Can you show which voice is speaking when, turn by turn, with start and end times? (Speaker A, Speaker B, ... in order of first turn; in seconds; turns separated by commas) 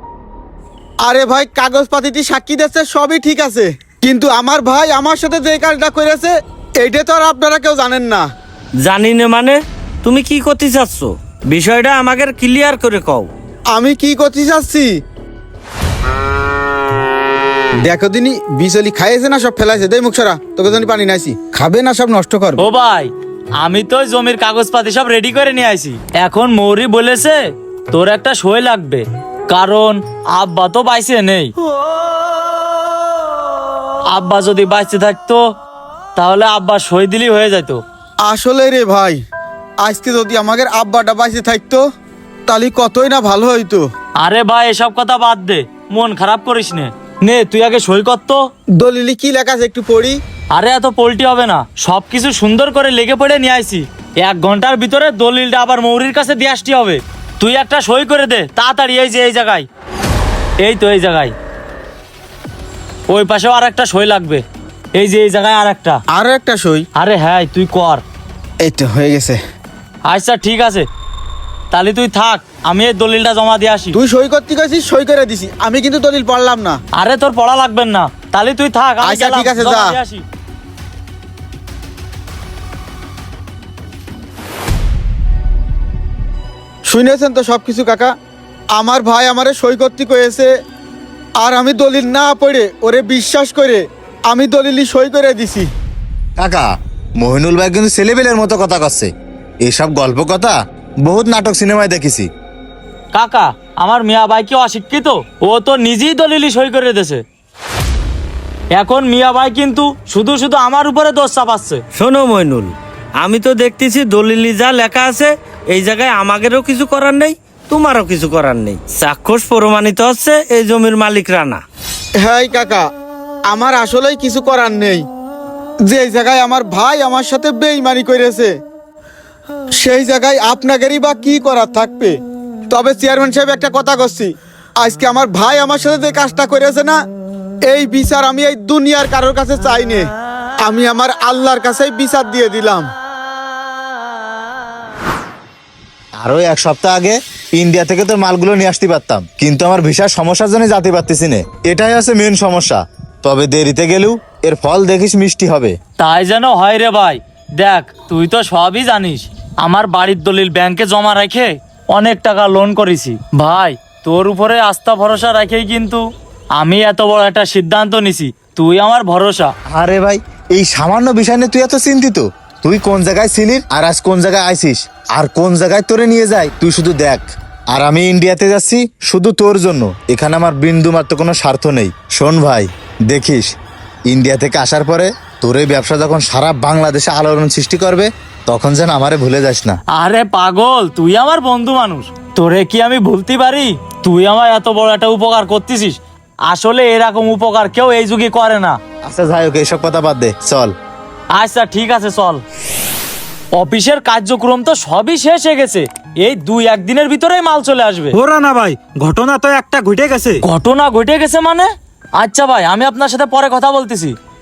Speaker A: 1.0-8.2, Speaker B: 8.8-13.3, Speaker A: 13.7-14.9, Speaker A: 17.8-22.6, Speaker C: 22.6-31.5, Speaker C: 34.1-35.4, Speaker C: 36.1-37.8, Speaker A: 38.2-39.2, Speaker A: 39.8-41.8, Speaker A: 42.5-43.9, Speaker C: 44.2-48.4, Speaker A: 48.8-50.2, Speaker C: 50.5-59.6, Speaker C: 60.6-61.3, Speaker C: 63.1-64.4, Speaker C: 65.0-66.0, Speaker A: 66.1-66.9, Speaker C: 67.0-68.0, Speaker A: 68.6-69.4, Speaker C: 70.1-70.8, Speaker C: 71.7-74.0, Speaker A: 73.9-76.8, Speaker C: 77.0-80.2, Speaker A: 79.0-80.0, Speaker A: 86.9-88.1, Speaker A: 88.7-90.5, Speaker A: 91.4-95.7, Speaker D: 96.4-99.1, Speaker D: 99.6-102.3, Speaker C: 103.1-107.2, Speaker C: 108.7-111.8, Speaker B: 112.0-121.6, Speaker A: 122.2-122.9, Speaker A: 123.5-125.0, Speaker A: 125.9-128.5, Speaker A: 129.8-132.2, Speaker A: 132.7-137.0, Speaker A: 137.7-140.1, Speaker A: 140.6-142.9, Speaker D: 146.2-155.7, Speaker C: 156.0-166.0, Speaker C: 166.6-169.5, Speaker D: 169.7-183.5, Speaker D: 184.1-189.8, Speaker C: 189.9-198.8, Speaker D: 199.0-200.7, Speaker C: 201.3-202.4, Speaker C: 203.5-208.2, Speaker E: 208.1-210.4, Speaker C: 210.4-214.1